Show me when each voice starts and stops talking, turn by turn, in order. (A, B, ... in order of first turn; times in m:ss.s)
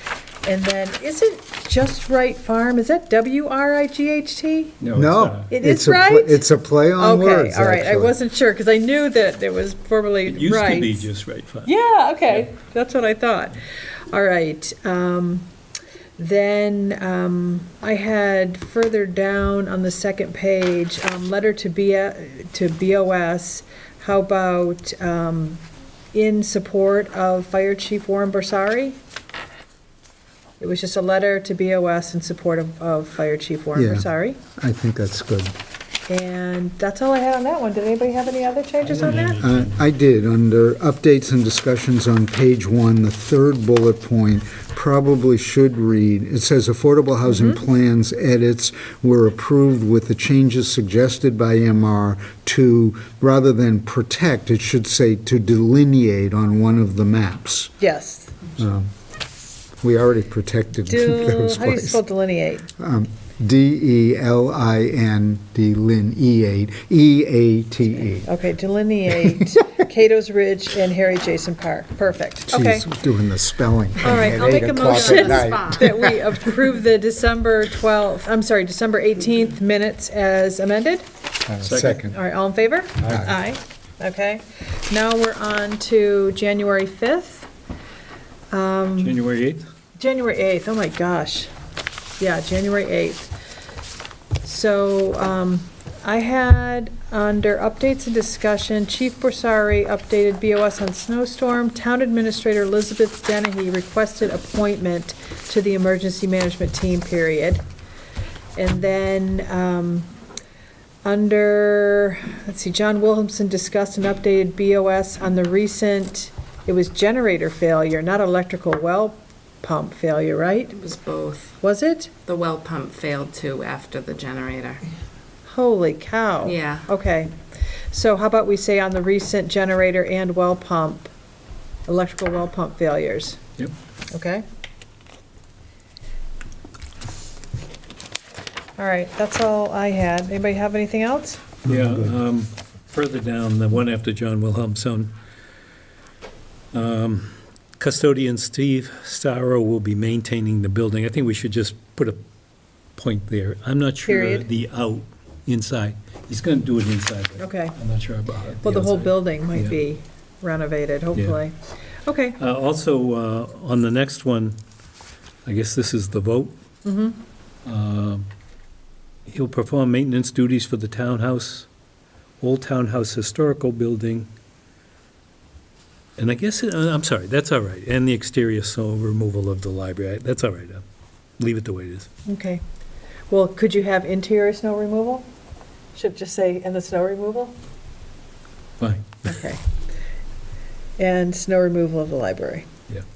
0:00.4-0:04.8 A
0:04.8-0:05.5 B
0:04.9-0:08.2 C
0:05.5-0:06.4 A
0:07.0-0:11.1 A
0:10.2-0:11.7 B
0:11.6-0:15.5 A
0:16.2-0:29.0 A
0:30.6-0:34.4 A
0:33.7-0:35.6 C
0:36.1-0:39.4 A
0:38.8-0:39.8 B
0:39.4-0:57.8 C
0:47.2-0:47.6 A
0:57.8-0:58.5 A
0:58.6-0:58.9 C
0:59.8-1:02.0 C
1:00.9-1:02.7 A
1:02.8-1:08.3 C
1:08.2-1:12.9 A
1:12.5-1:16.0 C
1:14.0-1:21.0 A
1:14.1-1:16.2 D
1:21.4-1:22.2 C
1:21.6-1:22.0 B
1:22.0-1:27.5 A
1:23.0-1:23.3 B
1:23.0-1:23.4 C
1:28.5-1:29.2 A
1:29.0-1:29.6 B
1:30.0-1:31.5 A
1:32.2-1:33.3 A
1:34.4-1:47.6 A
1:48.6-1:50.1 A
1:51.0-2:00.8 A
2:00.7-2:01.6 D
2:01.6-2:02.1 A
2:02.2-2:04.8 D
2:05.4-2:11.1 A
2:06.4-2:06.9 D
2:11.8-2:13.4 A
2:14.1-2:14.4 A
2:18.8-2:21.4 A
2:21.6-2:25.1 B
2:21.7-2:22.1 C
2:26.7-2:32.2 B
2:33.0-2:39.8 B
2:34.0-2:34.5 A
2:37.4-2:37.8 A
2:38.6-2:42.4 A
2:41.1-2:41.4 B
2:42.4-2:44.6 B
2:45.4-2:46.6 B
2:46.8-2:47.2 A
2:47.6-2:48.3 B
2:49.2-2:51.7 B
2:52.4-2:54.3 B
2:56.2-3:00.8 B
3:01.4-3:02.1 B
3:02.2-3:02.6 A
3:03.3-3:05.3 A
3:05.9-3:07.6 A
3:08.8-3:09.4 B
3:09.2-3:09.6 A
3:11.0-3:12.7 A